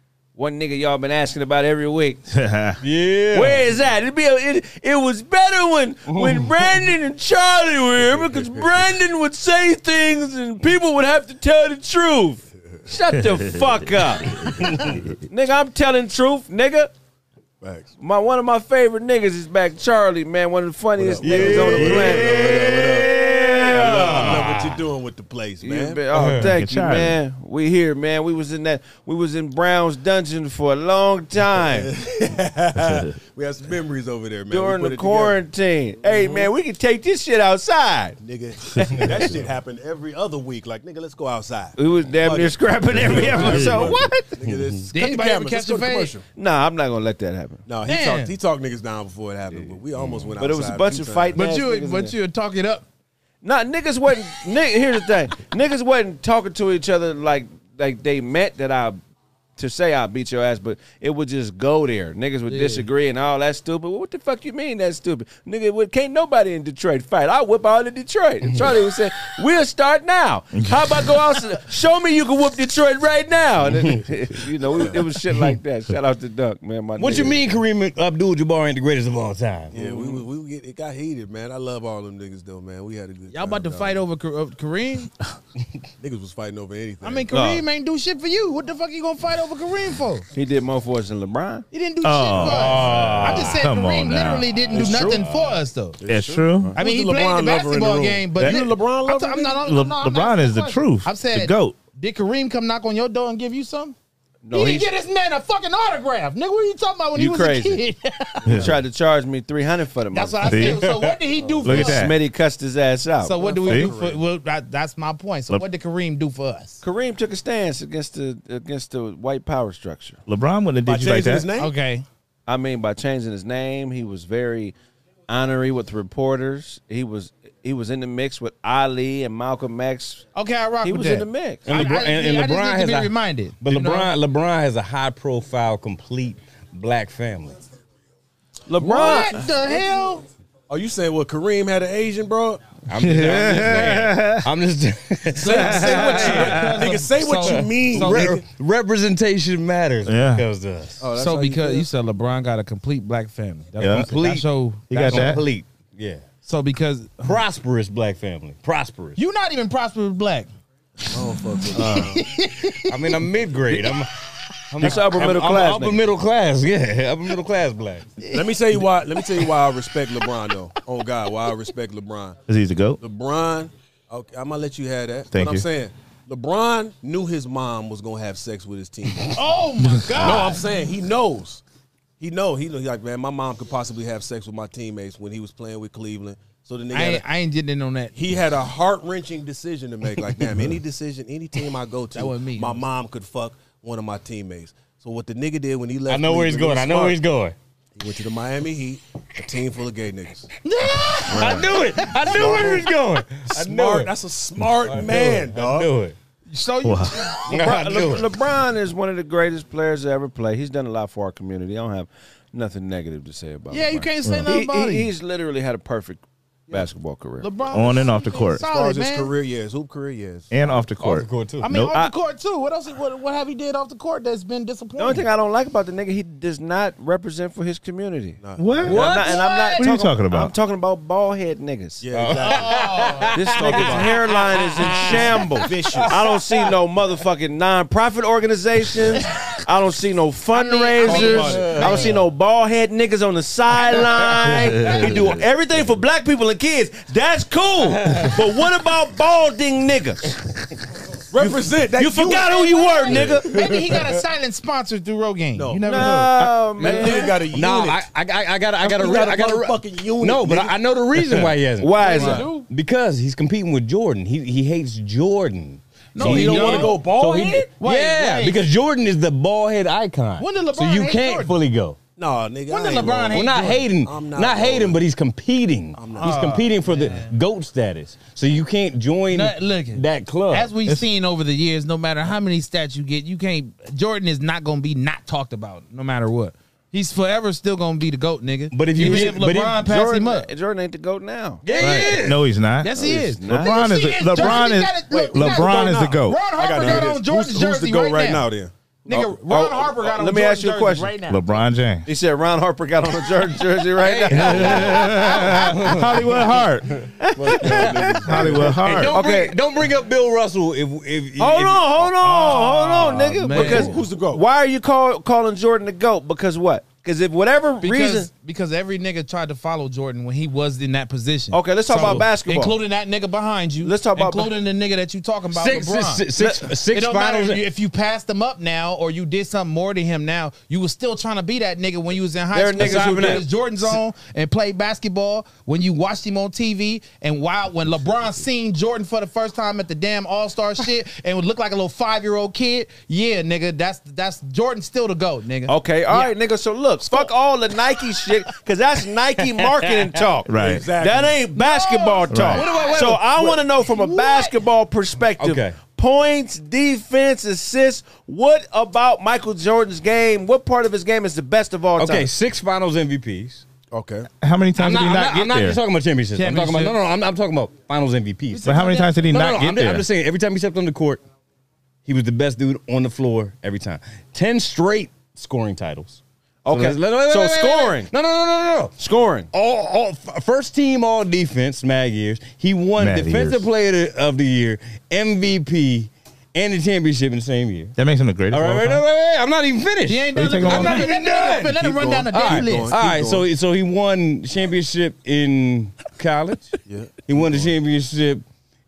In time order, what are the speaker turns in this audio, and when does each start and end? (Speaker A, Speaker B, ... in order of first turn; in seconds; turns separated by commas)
Speaker A: 0.3-2.2, Speaker B: 2.3-2.8, Speaker C: 2.8-3.6, Speaker A: 3.3-14.5, Speaker C: 6.1-6.5, Speaker D: 8.0-8.9, Speaker B: 13.3-13.9, Speaker A: 15.3-16.9, Speaker D: 17.6-17.9, Speaker A: 18.0-22.3, Speaker D: 21.0-26.0, Speaker C: 21.2-24.8, Speaker B: 22.1-22.5, Speaker A: 25.6-31.9, Speaker C: 26.1-26.5, Speaker B: 26.4-27.2, Speaker D: 31.6-35.4, Speaker A: 34.5-38.2, Speaker D: 36.0-36.5, Speaker D: 38.2-46.2, Speaker A: 41.8-44.0, Speaker B: 43.5-44.0, Speaker C: 44.4-44.9, Speaker E: 44.9-46.1, Speaker A: 46.3-47.6, Speaker D: 47.6-51.4, Speaker E: 47.9-48.3, Speaker A: 50.4-52.1, Speaker E: 51.3-52.8, Speaker A: 53.4-59.0, Speaker A: 59.6-77.4, Speaker E: 62.5-62.8, Speaker C: 77.0-80.2, Speaker D: 79.7-84.0, Speaker E: 83.3-85.1, Speaker D: 86.0-87.3, Speaker E: 87.0-90.2, Speaker A: 87.3-87.6, Speaker A: 90.3-91.7, Speaker E: 91.7-96.0, Speaker B: 92.0-95.1, Speaker C: 92.4-93.6, Speaker D: 94.8-95.2, Speaker C: 94.8-95.6, Speaker D: 96.0-99.6, Speaker B: 96.0-96.7, Speaker E: 96.7-103.9, Speaker B: 99.6-101.8, Speaker A: 104.4-104.9, Speaker E: 104.5-108.5, Speaker A: 107.1-107.8, Speaker D: 108.5-108.7, Speaker A: 108.5-110.7, Speaker E: 110.1-112.1, Speaker B: 110.4-110.9, Speaker C: 110.7-111.2, Speaker D: 111.4-111.7, Speaker B: 111.6-112.2, Speaker A: 111.7-113.4, Speaker E: 113.2-116.8, Speaker D: 113.4-114.2, Speaker B: 113.7-113.9, Speaker A: 116.8-120.2, Speaker B: 120.2-121.5, Speaker D: 120.8-121.7, Speaker E: 121.6-122.0, Speaker A: 122.5-124.7, Speaker A: 125.3-130.2, Speaker E: 130.3-134.1, Speaker A: 130.8-131.8, Speaker C: 131.7-137.6, Speaker A: 138.7-139.4, Speaker E: 138.8-140.2, Speaker D: 140.7-142.6, Speaker C: 142.9-146.6, Speaker B: 143.0-144.4, Speaker D: 145.3-148.4, Speaker E: 145.5-148.3, Speaker B: 145.8-146.5, Speaker C: 147.4-151.0, Speaker B: 150.1-150.4, Speaker D: 151.0-151.9, Speaker E: 151.2-155.4, Speaker B: 153.8-154.2, Speaker C: 153.8-154.4, Speaker B: 154.9-155.4, Speaker C: 155.0-156.2, Speaker E: 156.4-157.4, Speaker C: 157.2-159.2, Speaker E: 159.2-160.5, Speaker D: 161.1-162.3, Speaker E: 161.7-163.2, Speaker C: 162.9-164.1, Speaker C: 164.7-168.1, Speaker A: 164.8-166.0, Speaker D: 168.3-172.4, Speaker B: 172.5-173.0, Speaker D: 173.0-179.4, Speaker B: 175.3-175.7, Speaker E: 179.3-180.6, Speaker B: 180.0-180.5, Speaker D: 180.2-181.6, Speaker D: 182.2-187.2, Speaker E: 186.9-188.1, Speaker D: 188.1-197.2, Speaker E: 192.1-192.8, Speaker C: 196.1-197.5, Speaker D: 198.0-200.5, Speaker E: 200.6-202.8, Speaker C: 201.3-204.1, Speaker A: 201.3-201.7, Speaker D: 202.3-202.9, Speaker D: 203.5-205.9, Speaker C: 204.8-206.2, Speaker E: 206.5-207.5, Speaker B: 206.8-207.3, Speaker A: 207.5-217.5, Speaker C: 207.5-208.3, Speaker E: 213.7-215.1, Speaker B: 214.2-214.5, Speaker E: 217.4-219.3, Speaker B: 217.7-218.6, Speaker D: 218.6-220.8, Speaker B: 220.5-222.1, Speaker C: 221.0-221.7, Speaker E: 221.6-225.3, Speaker A: 225.0-232.0, Speaker D: 228.4-229.0, Speaker B: 228.6-229.1, Speaker C: 228.8-229.7, Speaker B: 229.8-230.5, Speaker D: 232.0-234.1, Speaker C: 232.1-233.9, Speaker E: 232.4-233.3, Speaker A: 233.3-250.3, Speaker D: 234.9-236.2, Speaker E: 240.5-242.0, Speaker D: 241.0-242.0, Speaker C: 241.4-242.0, Speaker B: 244.7-245.2, Speaker D: 251.3-254.0, Speaker A: 252.0-253.5, Speaker E: 252.4-257.1, Speaker D: 255.5-258.0, Speaker A: 255.9-257.2, Speaker C: 257.5-272.0, Speaker D: 258.8-261.5, Speaker A: 261.8-262.5, Speaker E: 261.9-262.6, Speaker E: 266.1-267.1, Speaker D: 266.2-267.7, Speaker E: 267.8-268.6, Speaker E: 270.4-271.6, Speaker D: 272.2-275.0, Speaker E: 272.7-273.8, Speaker C: 273.3-280.7, Speaker D: 275.9-276.4, Speaker E: 276.2-277.3, Speaker E: 279.3-290.5, Speaker C: 288.7-289.8, Speaker A: 289.0-291.6, Speaker C: 291.6-292.4, Speaker B: 291.8-296.4, Speaker E: 292.8-298.4, Speaker A: 292.9-293.8, Speaker D: 295.1-298.7, Speaker E: 299.1-301.4, Speaker A: 299.1-301.1, Speaker B: 301.3-302.1, Speaker A: 302.0-304.9, Speaker C: 304.0-306.2, Speaker B: 304.3-307.0, Speaker A: 307.2-307.8, Speaker D: 307.2-309.1, Speaker B: 308.2-309.1, Speaker C: 308.8-312.1, Speaker A: 309.1-309.5, Speaker A: 311.4-318.3, Speaker E: 312.2-314.0, Speaker D: 313.5-314.4, Speaker E: 317.8-326.3, Speaker A: 321.5-322.7, Speaker A: 323.8-324.5, Speaker C: 325.5-327.6, Speaker E: 326.9-346.3, Speaker A: 332.5-333.4, Speaker C: 332.8-333.9, Speaker A: 345.7-362.3, Speaker E: 347.0-347.3, Speaker B: 350.5-350.9, Speaker D: 350.5-351.4, Speaker E: 351.6-353.3, Speaker B: 352.3-352.7, Speaker D: 352.8-353.6, Speaker E: 353.8-354.6, Speaker C: 355.4-355.8, Speaker C: 362.0-363.6, Speaker D: 363.9-364.3, Speaker B: 364.4-365.8, Speaker C: 364.8-368.7, Speaker E: 366.4-367.0, Speaker E: 368.5-369.4, Speaker B: 368.6-370.0, Speaker C: 369.3-371.2, Speaker C: 372.1-378.9, Speaker A: 376.6-378.1, Speaker A: 379.0-379.5, Speaker C: 379.5-387.9, Speaker B: 383.0-383.6, Speaker B: 387.9-389.0, Speaker C: 388.5-391.7, Speaker E: 390.1-392.9, Speaker B: 390.4-391.1, Speaker D: 390.8-391.1, Speaker D: 391.7-393.5, Speaker C: 392.3-398.4, Speaker D: 396.9-397.7